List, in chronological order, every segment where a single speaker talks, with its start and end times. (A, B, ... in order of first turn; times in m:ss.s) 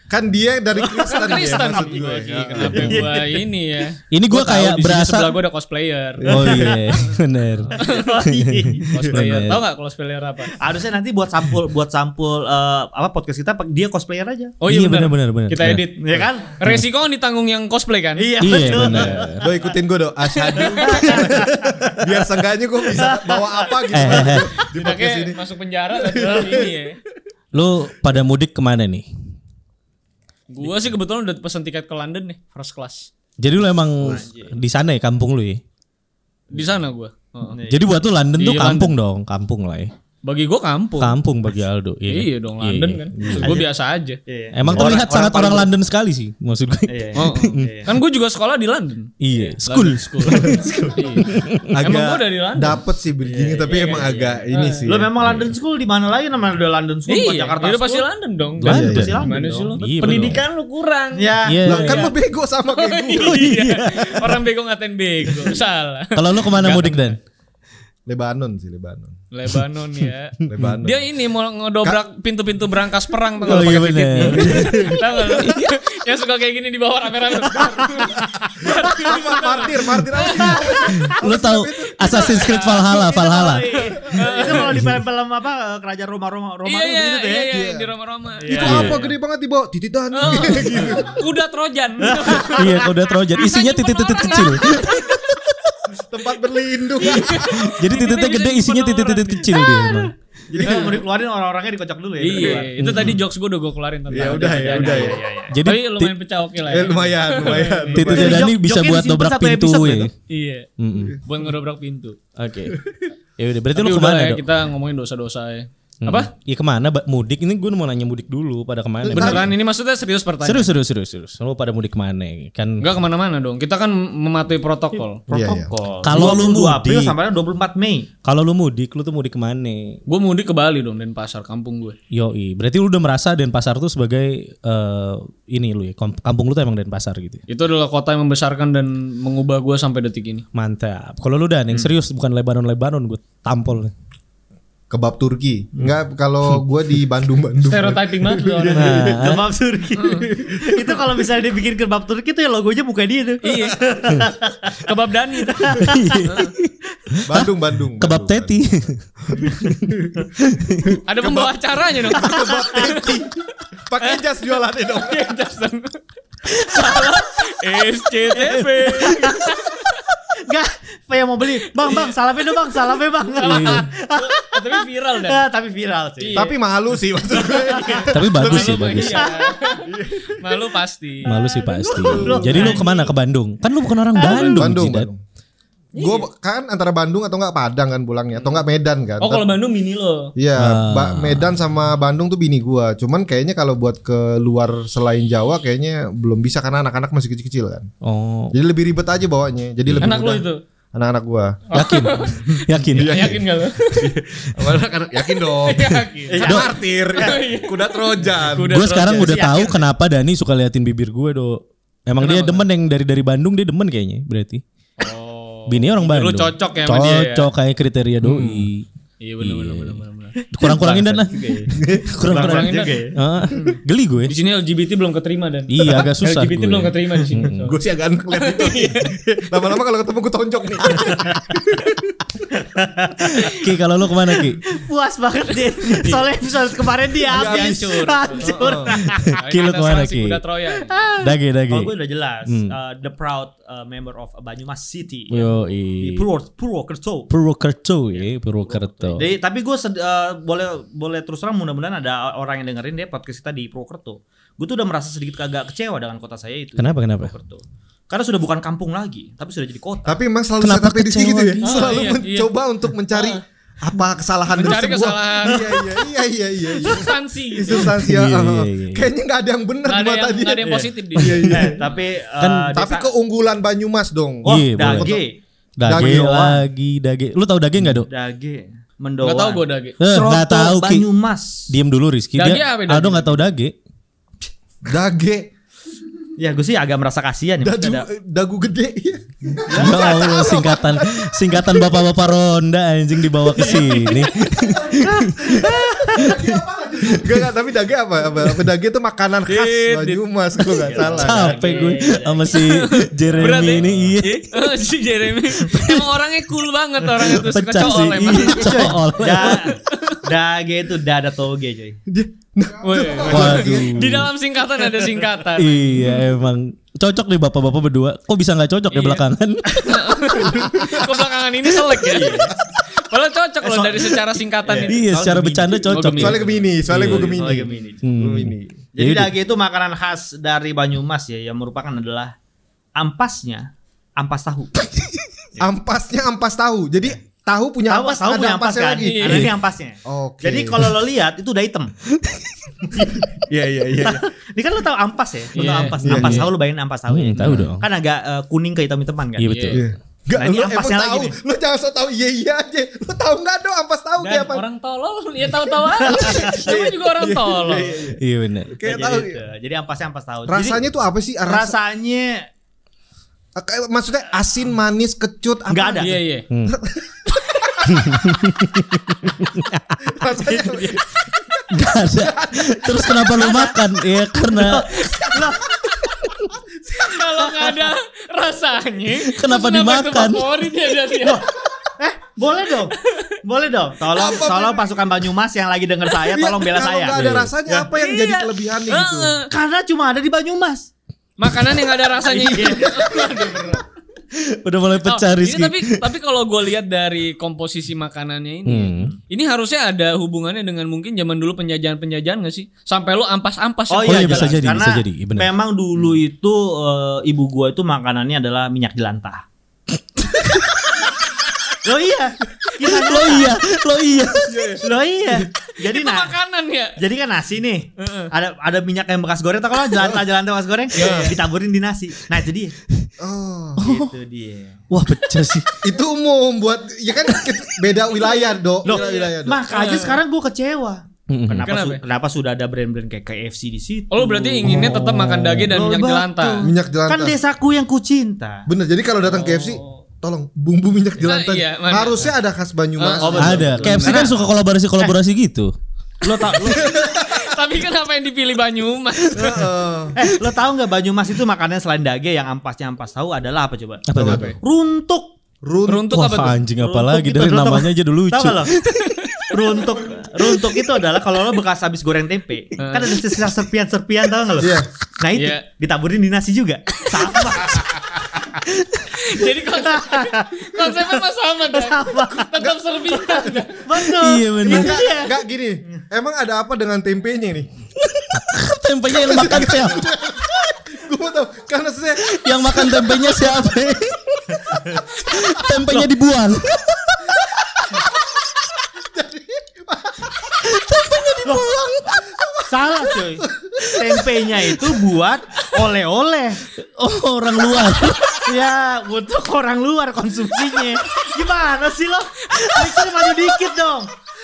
0:00.1-0:03.1 A
0:00.8-0:03.4 B
0:01.0-0:06.8 C
0:04.1-0:05.4 D
0:06.3-0:06.9 B
0:06.3-0:09.6 D
0:07.7-0:09.2 B
0:07.8-0:08.1 C
0:08.9-0:10.6 C
0:10.5-0:14.6 B
0:14.6-0:19.2 C
0:14.7-0:15.8 D
0:16.0-0:16.5 B
0:18.2-0:19.7 B
0:18.4-0:19.4 D
0:18.7-0:25.4 A
0:20.4-0:22.0 B
0:20.5-0:21.2 C
0:22.9-0:24.3 B
0:23.9-0:24.5 D
0:24.6-0:27.0 C
0:25.9-0:26.7 A
0:27.5-0:29.1 D
0:30.5-0:33.1 C
0:33.4-0:35.6 D
0:34.0-0:34.6 B
0:36.5-0:37.6 C
0:37.5-0:37.8 B
0:37.7-0:39.9 D
0:38.4-0:38.9 C
0:40.2-0:41.2 C
0:41.0-0:43.6 D
0:42.1-0:44.2 C
0:43.4-0:43.7 B
0:44.3-0:45.7 B
0:44.5-0:47.7 D
0:46.9-0:47.9 B
0:47.2-0:49.1 C
0:49.2-0:50.6 D
0:49.6-0:51.3 C
0:50.3-0:51.2 B
0:51.2-0:52.0 D
0:51.7-0:55.1 A
0:51.8-0:52.8 C
0:53.2-0:58.1 B
0:53.6-0:54.9 C
0:55.2-0:55.5 D
0:57.1-1:02.1 C
0:58.6-1:00.4 D
0:58.7-0:59.2 A
0:58.7-1:00.3 B
1:01.2-1:01.8 B
1:01.5-1:02.1 D
1:01.6-1:03.5 A
1:02.7-1:07.2 C
1:03.2-1:04.4 D
1:06.2-1:07.2 D
1:08.1-1:09.1 A
1:09.3-1:21.0 C
1:10.4-1:11.0 A
1:13.4-1:15.7 D
1:13.5-1:15.6 A
1:17.5-1:19.6 B
1:18.6-1:22.6 A
1:21.0-1:23.8 D
1:22.0-1:23.0 C
1:22.6-1:27.5 B
1:24.0-1:24.6 A
1:24.0-1:24.7 C
1:26.7-1:29.2 C
1:27.5-1:27.9 A
1:28.4-1:29.0 B
1:28.5-1:31.2 A
1:28.6-1:28.9 D
1:30.1-1:35.2 C
1:32.0-1:32.9 B
1:32.5-1:35.8 D
1:35.9-1:37.9 A
1:37.0-1:40.0 C
1:37.0-1:40.1 D
1:40.5-1:42.7 B
1:40.5-1:41.0 A
1:40.6-1:41.0 C
1:42.2-1:48.3 C
1:42.8-1:43.2 D
1:44.1-1:45.2 A
1:44.7-1:45.6 B
1:45.5-1:46.1 D
1:46.7-1:48.5 A
1:48.0-1:50.1 D
1:48.0-1:50.1 B
1:50.3-1:50.7 C
1:50.8-1:51.2 D
1:51.2-1:52.2 C
1:52.4-1:52.8 D
1:52.7-1:53.1 A
1:53.4-1:54.4 D
1:53.8-1:56.3 C
1:56.0-1:59.5 D
1:59.0-1:59.5 A
1:59.1-2:00.7 C
2:00.4-2:02.9 D
2:02.8-2:05.2 C
2:05.3-2:08.1 B
2:05.3-2:05.7 A
2:06.0-2:07.1 D
2:08.2-2:10.0 D
2:10.1-2:12.0 C
2:12.1-2:17.4 D
2:17.5-2:20.4 C
2:20.5-2:23.9 D
2:24.9-2:29.3 A
2:27.6-2:29.1 C
2:28.7-2:29.5 D
2:29.1-2:34.9 B
2:30.0-2:30.3 C
2:30.4-2:31.0 A
2:33.4-2:33.8 C
2:34.8-2:36.5 C
2:35.4-2:36.3 B
2:35.8-2:39.5 D
2:37.2-2:38.6 A
2:39.3-2:40.3 A
2:40.4-2:41.0 D
2:40.8-2:43.4 A
2:41.1-2:43.2 C
2:42.2-2:42.8 B
2:43.9-2:45.3 A
2:44.9-2:45.9 C
2:46.5-2:50.0 C
2:48.4-2:49.6 B
2:50.4-2:56.5 B
2:51.8-2:52.1 C
2:53.4-2:55.4 C
2:53.4-2:53.9 D
2:56.2-2:56.6 C
2:56.3-2:59.0 A
2:57.3-2:58.3 B
2:58.1-2:59.3 D
2:58.4-3:01.3 C
2:59.0-2:59.9 B
2:59.9-3:00.4 A
3:01.2-3:05.1 D
3:01.2-3:03.1 B
3:02.0-3:02.9 A
3:02.4-3:02.9 C
3:04.2-3:04.5 B
3:04.2-3:05.2 A
3:06.0-3:06.3 C
3:06.0-3:09.4 A
3:09.2-3:10.3 C
3:10.4-3:17.9 A
3:10.6-3:11.6 D
3:18.0-3:18.5 D
3:18.5-3:21.6 A
3:20.0-3:20.6 C
3:21.7-3:24.1 C
3:21.7-3:23.4 D
3:22.9-3:28.8 A
3:25.6-3:26.6 C
3:26.3-3:27.4 B
3:27.2-3:29.3 C
3:28.6-3:34.6 D
3:29.0-3:29.9 B
3:32.2-3:32.6 C
3:35.0-3:37.5 C
3:35.7-3:38.9 D
3:39.2-3:41.2 C
3:39.4-3:44.3 D
3:40.6-3:41.7 B
3:41.7-3:42.1 A
3:42.3-3:43.2 B
3:42.3-3:43.0 C
3:44.3-3:47.8 C
3:45.7-3:47.7 D
3:47.6-3:52.2 A
3:48.3-3:49.2 C
3:52.5-3:53.6 B
3:53.4-3:54.6 D
3:54.3-3:59.4 B
3:55.9-3:56.2 C
3:57.3-4:01.0 C
3:57.3-3:59.0 A
3:59.1-4:00.4 D
4:00.8-4:07.3 B
4:01.2-4:01.9 D
4:02.5-4:02.7 D
4:05.3-4:06.3 D
4:07.3-4:09.3 D
4:08.2-4:20.2 B
4:16.8-4:17.3 D
4:20.1-4:31.8 A
4:20.6-4:22.1 D
4:21.6-4:22.5 C
4:23.1-4:23.4 C
4:24.5-4:25.9 C
4:26.8-4:28.0 C
4:27.8-4:29.1 D
4:29.9-4:31.6 C
4:30.6-4:30.9 B
4:31.2-4:31.5 D
4:31.4-4:33.1 B
4:32.5-4:35.2 A
4:34.4-4:35.1 D
4:34.4-4:35.4 B
4:35.8-4:38.1 D
4:35.8-4:36.6 A
4:35.9-4:36.6 B
4:38.1-4:41.7 B
4:39.2-4:40.0 C
4:40.0-4:41.1 D
4:41.7-4:43.8 D
4:42.4-4:43.4 C
4:44.8-4:45.5 A
4:46.4-4:48.1 B
4:47.6-4:52.1 A
4:49.7-4:50.3 B
4:49.8-4:57.5 D
4:53.6-4:54.3 C
4:54.5-5:01.7 A
4:55.0-4:56.3 B
4:59.5-5:00.8 C
5:00.8-5:02.6 B
5:01.2-5:04.5 D
5:02.5-5:09.0 C
5:03.6-5:04.1 A
5:07.2-5:09.8 D
5:08.5-5:12.0 B
5:09.9-5:10.2 C
5:12.1-5:14.3 A
5:12.8-5:16.1 C
5:13.2-5:14.3 D
5:15.6-5:20.0 D
5:18.9-5:19.2 C
5:19.8-5:26.5 C
5:20.4-5:21.3 A
5:22.1-5:22.5 B
5:22.1-5:22.4 A
5:23.6-5:25.8 B
5:24.8-5:27.5 D
5:26.1-5:28.8 A
5:26.9-5:28.0 B
5:28.0-5:29.3 D
5:29.0-5:32.3 B
5:33.0-5:34.7 B
5:35.6-5:39.5 A
5:37.9-5:41.9 B
5:39.0-5:39.5 C
5:40.0-5:40.9 A
5:42.2-5:42.5 D
5:42.9-5:44.2 A
5:43.0-5:43.2 B
5:43.9-5:49.7 B
5:45.6-5:46.5 C
5:46.0-5:46.5 A
5:47.1-5:47.8 D
5:49.4-5:49.9 D
5:49.5-5:49.8 C
5:49.7-5:54.6 A
5:50.4-5:51.4 B
5:54.2-5:58.1 C
5:56.0-5:56.7 B
5:56.0-5:59.4 A
5:58.2-5:58.7 D
5:58.8-6:00.8 B
6:00.5-6:01.8 A
6:01.4-6:02.5 B
6:03.6-6:08.6 A
6:05.7-6:06.2 B
6:06.0-6:06.5 C
6:07.9-6:09.9 D
6:10.0-6:13.5 A
6:10.3-6:11.0 B
6:11.7-6:15.2 D
6:13.4-6:13.8 B
6:14.5-6:15.7 B
6:15.9-6:17.7 A
6:17.0-6:21.4 C
6:19.1-6:20.5 D
6:21.2-6:27.9 B
6:24.1-6:25.0 A
6:26.2-6:29.4 A
6:27.1-6:27.5 D
6:27.9-6:29.5 C
6:29.5-6:30.9 B
6:31.4-6:33.8 C
6:32.3-6:33.0 B
6:32.4-6:33.7 A
6:34.3-6:36.0 D
6:35.0-6:44.5 C
6:38.7-6:39.1 D
6:43.9-6:49.4 B
6:44.0-6:45.5 D
6:51.8-6:53.6 B
6:52.8-6:54.8 D
6:54.5-6:54.9 A
6:54.8-6:56.3 B
6:55.7-6:57.0 C
6:57.0-7:02.8 B
6:58.0-6:58.3 C
7:00.9-7:01.3 A
7:00.9-7:01.4 C
7:03.2-7:03.9 A
7:03.8-7:04.1 D
7:03.8-7:04.8 B
7:04.9-7:05.7 D
7:05.8-7:09.7 A
7:08.8-7:14.8 B
7:08.8-7:10.2 C
7:11.3-7:11.7 D
7:11.6-7:12.0 C
7:14.1-7:16.7 C
7:14.6-7:15.7 D
7:14.7-7:15.0 A
7:15.7-7:18.7 B
7:16.6-7:17.4 A
7:18.7-7:23.8 A
7:19.3-7:19.8 C
7:21.2-7:22.3 C
7:23.0-7:24.4 C
7:23.2-7:24.4 B
7:23.4-7:25.7 D
7:26.2-7:27.0 B
7:26.6-7:27.5 A
7:26.7-7:29.7 C
7:29.3-7:30.2 A
7:30.1-7:35.3 B
7:34.1-7:34.5 D
7:34.1-7:34.6 A
7:34.2-7:34.6 C
7:35.6-7:36.5 A
7:35.9-7:36.6 C
7:36.1-7:39.3 D
7:36.8-7:38.7 B
7:39.1-7:39.4 C
7:39.5-7:47.9 B
7:42.8-7:43.3 C
7:44.6-7:44.9 A
7:45.4-7:45.6 C
7:47.6-7:48.2 C
7:48.7-7:49.1 D
7:49.1-7:53.9 C
7:49.7-7:51.2 B
7:51.7-7:52.6 B
7:52.6-7:53.7 A
7:53.8-7:55.4 B
7:54.1-7:55.0 D
7:54.6-7:57.7 A
7:58.0-8:00.1 D
7:59.1-8:03.6 A
8:02.3-8:07.4 D
8:05.3-8:05.6 A
8:09.0-8:10.4 A
8:10.6-8:12.2 D
8:12.1-8:12.7 A
8:12.7-8:16.6 B
8:13.4-8:14.0 A
8:14.0-8:14.8 D
8:16.8-8:18.4 D
8:18.4-8:24.1 B
8:22.5-8:23.6 D